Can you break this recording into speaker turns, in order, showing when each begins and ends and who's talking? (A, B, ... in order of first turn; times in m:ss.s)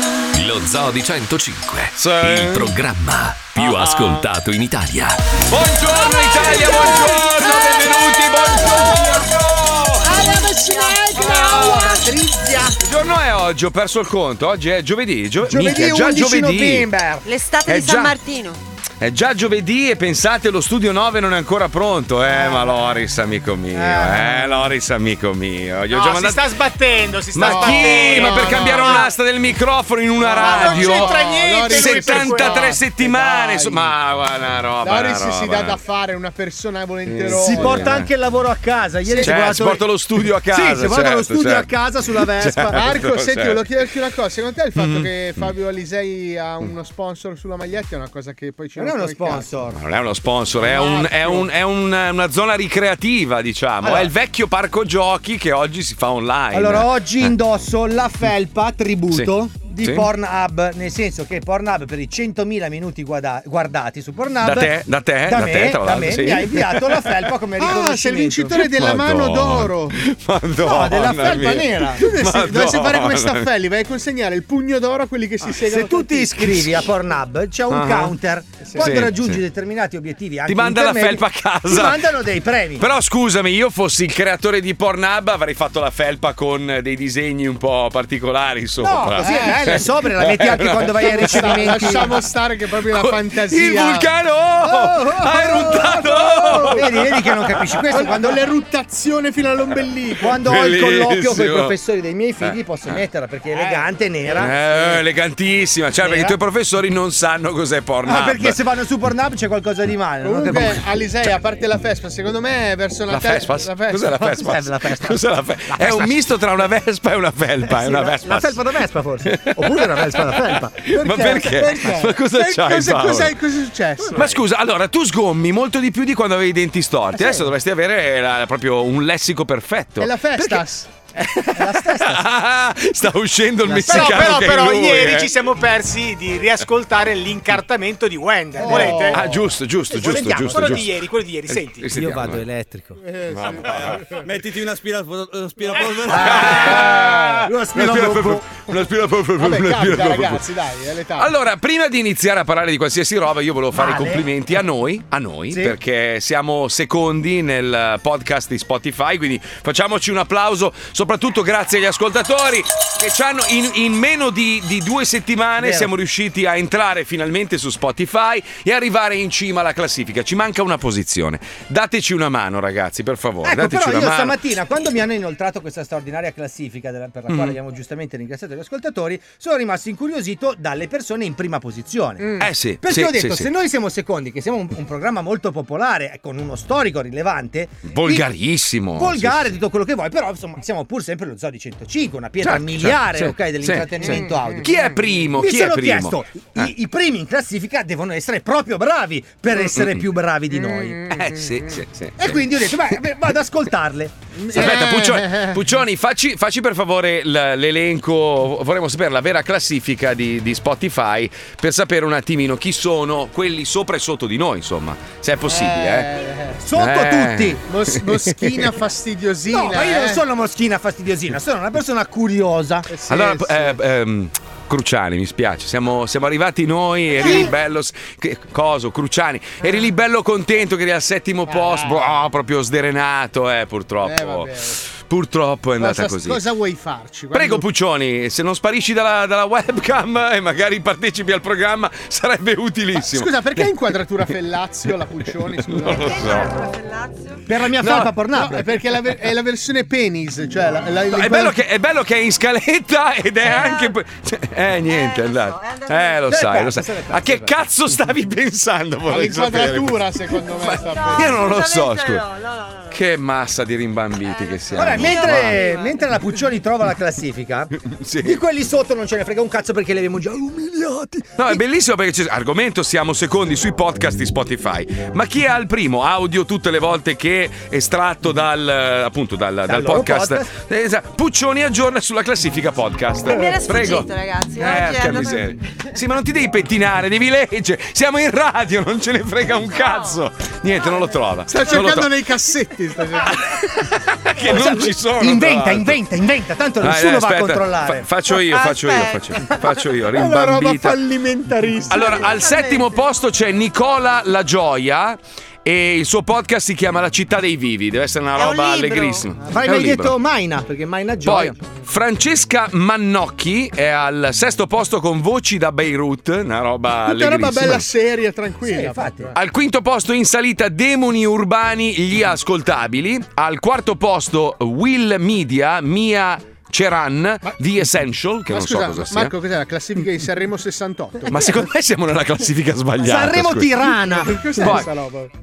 0:00.3-0:05.2 A
0:01.9-0:02.7 B
0:03.5-0:04.2 B
0:05.5-0:10.1 B
0:10.0-0:12.2 C
0:11.1-0:12.7 D
0:12.8-0:16.9 B
0:15.4-0:17.3 D
0:17.2-0:18.6 E
0:17.6-0:18.2 B
0:19.0-0:26.4 B
0:22.3-0:22.7 D
0:23.7-0:24.7 D
0:25.9-0:29.1 F
0:27.3-0:35.8 B
0:27.4-0:29.0 C
0:30.2-0:33.9 C
0:30.4-0:32.7 F
0:34.8-0:38.0 C
0:37.1-0:38.1 B
0:37.3-0:39.8 D
0:39.1-0:39.3 C
0:39.2-0:41.7 B
0:40.5-0:42.9 D
0:42.4-0:43.6 B
0:42.7-0:49.5 C
0:44.8-0:45.5 B
0:48.8-0:49.8 D
0:49.7-0:56.9 B
0:50.6-0:51.4 C
0:53.8-0:54.1 D
0:56.5-1:04.8 D
0:59.1-1:00.1 B
1:04.4-1:07.1 B
1:05.3-1:08.6 D
1:07.6-1:10.0 C
1:08.6-1:13.5 B
1:10.6-1:12.0 D
1:11.1-1:16.6 C
1:15.6-1:22.9 D
1:16.4-1:16.7 B
1:17.7-1:18.2 B
1:18.6-1:19.0 C
1:18.8-1:19.4 B
1:20.5-1:22.0 B
1:22.8-1:32.0 B
1:28.8-1:32.2 D
1:29.2-1:29.6 C
1:31.0-1:34.1 C
1:32.9-1:37.3 B
1:34.6-1:36.8 C
1:36.6-1:38.4 D
1:37.9-1:40.4 C
1:40.2-1:44.6 D
1:40.4-1:41.7 B
1:42.4-1:42.9 B
1:43.5-1:43.9 C
1:44.4-1:48.6 B
1:46.0-1:46.3 D
1:48.0-1:50.8 D
1:50.2-1:54.6 C
1:53.1-1:58.6 B
1:54.4-1:56.1 D
1:57.7-2:01.4 D
1:59.2-2:00.2 B
2:00.8-2:03.3 B
2:01.0-2:04.2 C
2:04.0-2:04.3 D
2:04.1-2:10.6 B
2:10.0-2:10.9 C
2:11.2-2:15.3 B
2:11.6-2:12.2 D
2:13.6-2:14.4 D
2:13.9-2:19.2 F
2:18.6-2:19.2 C
2:18.7-2:19.0 D
2:19.0-2:20.9 B
2:19.9-2:20.8 D
2:20.5-2:21.8 F
2:21.5-2:22.4 B
2:21.9-2:28.4 D
2:23.0-2:24.2 C
2:23.3-2:24.0 B
2:26.1-2:30.4 B
2:26.1-2:27.5 C
2:29.4-2:31.3 C
2:31.2-2:54.3 B
2:33.7-2:34.3 D
2:45.6-2:45.9 D
2:53.4-3:08.2 D
2:57.3-2:57.6 B
3:02.4-3:03.5 B
3:07.9-3:09.5 B
3:09.0-3:14.7 D
3:12.4-3:16.7 B
3:14.1-3:14.9 C
3:15.3-3:21.1 D
3:19.6-3:20.0 B
3:20.6-3:21.7 C
3:21.1-3:22.4 B
3:22.2-3:24.3 D
3:24.4-3:25.6 C
3:24.5-3:36.1 B
3:35.5-3:36.6 C
3:36.6-3:37.6 D
3:36.8-3:38.6 B
3:37.6-3:40.2 C
3:39.5-3:42.9 D
3:42.9-3:43.8 C
3:43.1-3:56.4 B
3:51.5-3:52.1 C
3:54.0-3:54.8 C
3:55.8-3:57.6 C
3:57.3-4:03.7 B
4:02.9-4:06.3 C
4:05.6-4:06.5 B
4:06.1-4:07.4 E
4:07.4-4:08.7 D
4:07.8-4:08.1 B
4:08.3-4:11.6 C
4:11.1-4:20.0 B
4:13.4-4:14.0 E
4:14.8-4:16.2 E
4:16.2-4:17.5 D
4:19.1-4:21.4 C
4:20.7-4:23.0 E
4:20.7-4:22.2 B
4:22.9-4:25.7 B
4:24.2-4:26.3 E
4:24.7-4:31.6 D
4:27.8-4:28.4 B
4:31.4-4:52.1 B
4:39.6-4:40.5 D
4:43.2-4:45.5 E
4:49.6-4:50.2 E
4:51.5-4:53.4 C
4:53.2-4:56.0 B
4:54.4-4:58.1 D
4:56.8-5:01.0 B
4:58.3-4:59.5 E
5:00.1-5:02.2 C
5:01.9-5:10.2 B
5:02.1-5:03.1 E
5:08.3-5:09.3 E
5:09.4-5:11.6 D
5:11.2-5:17.8 B
5:17.0-5:19.3 C
5:18.6-5:19.3 D
5:19.3-5:29.3 B
5:28.5-5:31.4 C
5:31.3-5:33.9 B
5:33.0-5:34.7 D
5:34.1-5:35.3 C
5:34.6-5:34.9 B